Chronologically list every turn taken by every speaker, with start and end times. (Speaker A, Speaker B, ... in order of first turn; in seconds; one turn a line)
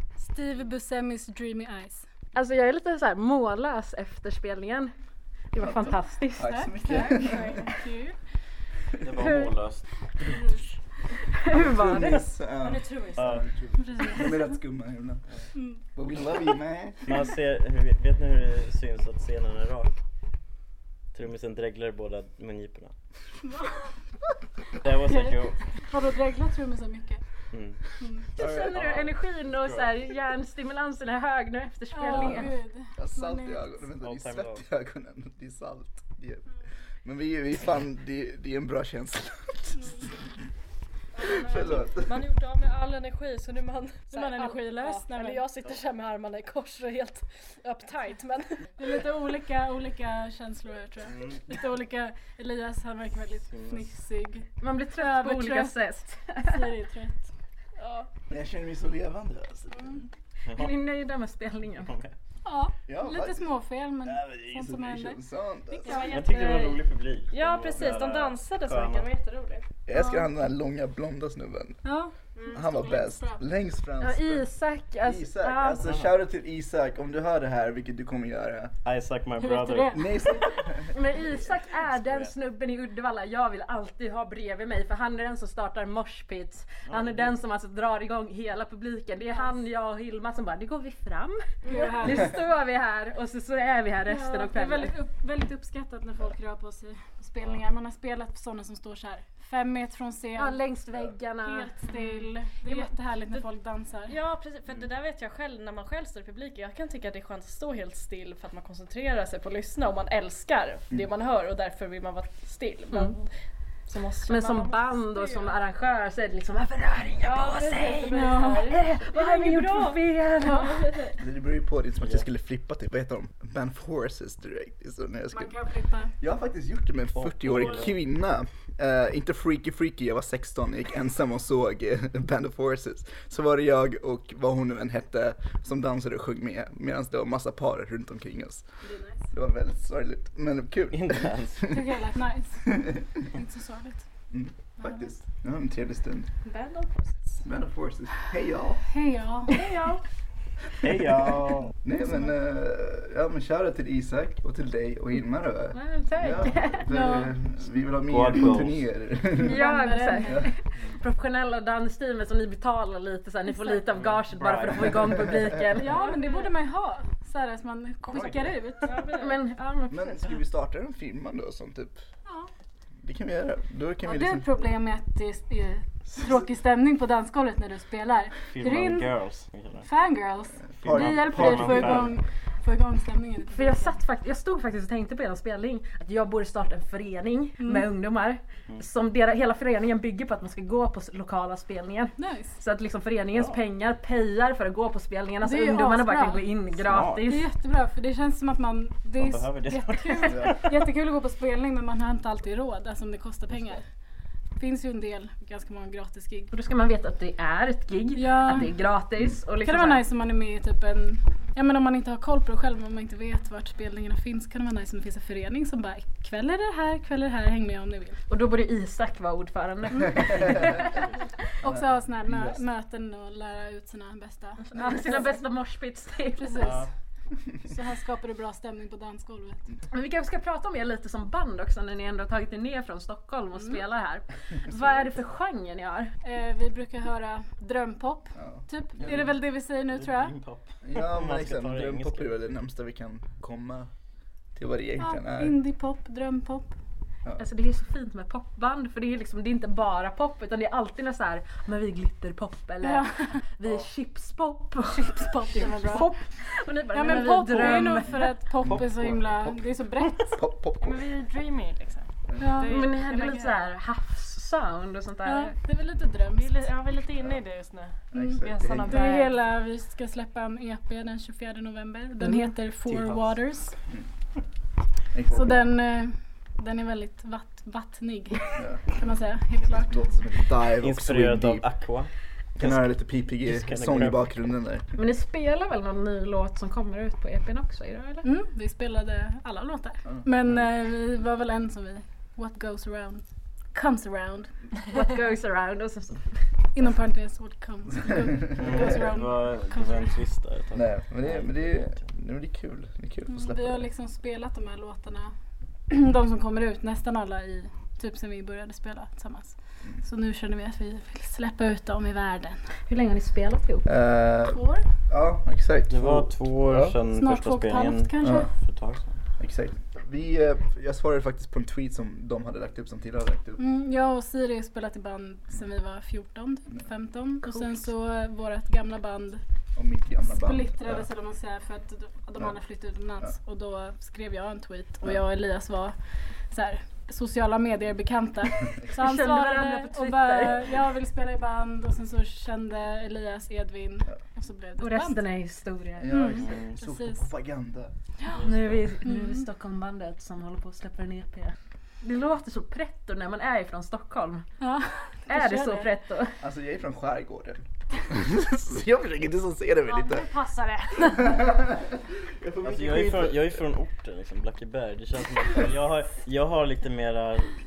Speaker A: 0.2-2.0
Speaker B: 2.3-4.9
Speaker B: 5.5-6.6
Speaker C: 5.6-7.7
Speaker A: 6.4-8.2
Speaker D: 9.0-10.4
Speaker B: 9.2-9.5
Speaker A: 10.2-10.6
Speaker B: 11.1-12.3
Speaker C: 11.5-15.2
Speaker E: 12.6-13.3
Speaker D: 13.2-13.4
Speaker A: 13.8-14.5
Speaker A: 15.5-15.8
Speaker C: 15.9-17.2
Speaker D: 17.0-19.9
Speaker D: 21.1-22.9
Speaker A: 23.4-23.9
Speaker D: 24.7-25.6
Speaker A: 25.1-27.2
Speaker D: 27.5-27.8
Speaker A: 28.0-28.3
Speaker D: 28.3-29.9
Speaker B: 28.4-32.5
Speaker A: 31.9-33.8
Speaker D: 32.1-32.5
Speaker C: 33.0-36.5
Speaker D: 34.0-34.6
Speaker C: 37.0-40.1
Speaker E: 41.1-48.8
Speaker C: 41.2-42.2
Speaker A: 44.1-45.5
Speaker A: 48.8-55.7
Speaker D: 51.0-51.5
Speaker D: 53.5-53.9
Speaker B: 54.6-56.7
Speaker A: 56.4-57.3
Speaker E: 57.8-58.1
Speaker C: 58.3-59.9
Speaker A: 59.7-60.1
Speaker D: 60.5-60.7
Speaker B: 60.5-61.9
Speaker D: 61.8-62.1
Speaker A: 62.4-66.1
Speaker C: 62.9-63.5
Speaker C: 64.0-66.1
Speaker E: 65.8-69.7
Speaker D: 66.0-69.1
Speaker C: 69.9-71.8
Speaker A: 69.9-70.3
Speaker A: 71.8-73.4
Speaker E: 72.4-72.6
Speaker C: 72.5-74.5
Speaker B: 74.0-75.8
Speaker C: 75.0-78.7
Speaker D: 75.8-76.1
Speaker D: 78.8-80.1
Speaker A: 79.4-80.6
Speaker C: 79.9-80.9
Speaker B: 80.9-91.4
Speaker D: 81.9-82.3
Speaker D: 86.8-87.3
Speaker A: 89.2-89.5
Speaker E: 91.7-92.1
Speaker A: 91.7-92.3
Speaker B: 92.0-94.9
Speaker A: 94.0-100.6
Speaker B: 100.3-101.7
Speaker A: 101.4-104.1
Speaker E: 101.8-103.4
Speaker E: 104.1-113.3
Speaker B: 112.9-113.2
Speaker E: 113.9-115.6
Speaker B: 114.2-120.9
Speaker E: 117.2-121.2
Speaker A: 118.0-118.8
Speaker C: 121.2-125.6
Speaker D: 122.0-122.2
Speaker A: 125.3-126.1
Speaker C: 126.2-138.6
Speaker D: 127.1-128.0
Speaker A: 138.8-139.2
Speaker C: 139.3-141.9
Speaker D: 140.9-141.8
Speaker A: 141.7-144.0
Speaker C: 144.3-146.3
Speaker A: 144.8-145.1
Speaker E: 146.4-147.3
Speaker C: 147.4-148.8
Speaker A: 148.9-149.5
Speaker E: 149.5-150.0
Speaker D: 150.8-151.7
Speaker C: 151.8-159.6
Speaker A: 152.0-152.3
Speaker B: 155.7-156.9
Speaker A: 156.9-157.3
Speaker D: 158.1-158.8
Speaker A: 159.4-160.5
Speaker B: 159.4-166.4
Speaker D: 163.9-165.3
Speaker A: 165.8-169.0
Speaker C: 168.1-168.5
Speaker E: 168.8-169.3
Speaker B: 169.1-170.3
Speaker C: 169.9-172.0
Speaker C: 173.0-174.5
Speaker A: 174.0-179.1
Speaker D: 178.4-179.9
Speaker A: 179.8-184.0
Speaker C: 180.8-182.1
Speaker D: 180.8-182.2
Speaker B: 183.5-197.4
Speaker A: 187.6-187.9
Speaker A: 192.2-192.6
Speaker D: 193.3-193.6
Speaker A: 195.4-196.4
Speaker D: 196.8-197.4
Speaker A: 197.2-203.8
Speaker D: 199.2-200.8
Speaker A: 204.6-206.5
Speaker B: 206.5-210.0
Speaker A: 208.1-208.7
Speaker A: 209.6-218.2
Speaker B: 218.3-221.1
Speaker C: 220.2-220.6
Speaker D: 220.4-221.2
Speaker C: 221.6-222.6
Speaker A: 221.6-225.3
Speaker B: 224.6-226.7
Speaker A: 226.4-226.9
Speaker D: 226.6-226.9
Speaker A: 227.6-229.7
Speaker B: 229.9-236.1
Speaker A: 236.2-240.3
Speaker C: 238.4-239.2
Speaker D: 239.0-242.4
Speaker C: 240.8-243.9
Speaker C: 244.5-245.6
Speaker A: 245.0-246.7
Speaker B: 247.3-258.2
Speaker A: 252.8-253.2
Speaker A: 254.9-256.1
Speaker A: 256.9-260.4
Speaker D: 257.4-257.9
Speaker C: 258.6-259.6
Speaker D: 258.6-259.1
Speaker C: 260.4-261.1
Speaker E: 260.8-263.6
Speaker A: 262.4-262.7
Speaker B: 262.6-265.5
Speaker A: 265.2-266.7
Speaker E: 266.3-269.5
Speaker C: 268.1-269.1
Speaker A: 268.9-273.8
Speaker B: 272.2-272.5
Speaker D: 272.8-273.3
Speaker C: 275.1-275.6
Speaker A: 275.3-280.1
Speaker C: 278.6-278.9
Speaker C: 279.6-281.7
Speaker D: 280.8-284.3
Speaker C: 282.6-284.9
Speaker B: 284.9-288.2
Speaker A: 288.2-294.5
Speaker B: 294.9-296.4
Speaker A: 296.7-300.2
Speaker D: 298.6-302.0
Speaker C: 298.6-298.9
Speaker C: 300.7-303.8
Speaker A: 303.3-305.3
Speaker A: 305.9-312.6
Speaker B: 312.9-313.9
Speaker C: 313.8-316.9
Speaker A: 314.5-314.8
Speaker D: 315.9-319.2
Speaker A: 317.1-318.5
Speaker C: 318.2-318.5
Speaker C: 319.4-323.6
Speaker A: 323.6-329.4
Speaker C: 329.7-331.1
Speaker A: 330.2-335.9
Speaker A: 336.5-345.2
Speaker B: 338.9-340.7
Speaker B: 344.8-346.3
Speaker C: 346.0-347.9
Speaker A: 346.1-347.2
Speaker D: 346.4-346.7
Speaker D: 348.3-348.9
Speaker B: 348.4-354.4
Speaker A: 349.0-349.4
Speaker A: 354.6-355.9
Speaker B: 355.3-356.4
Speaker C: 356.4-360.3
Speaker A: 360.1-361.1
Speaker C: 361.1-363.6
Speaker D: 362.6-367.6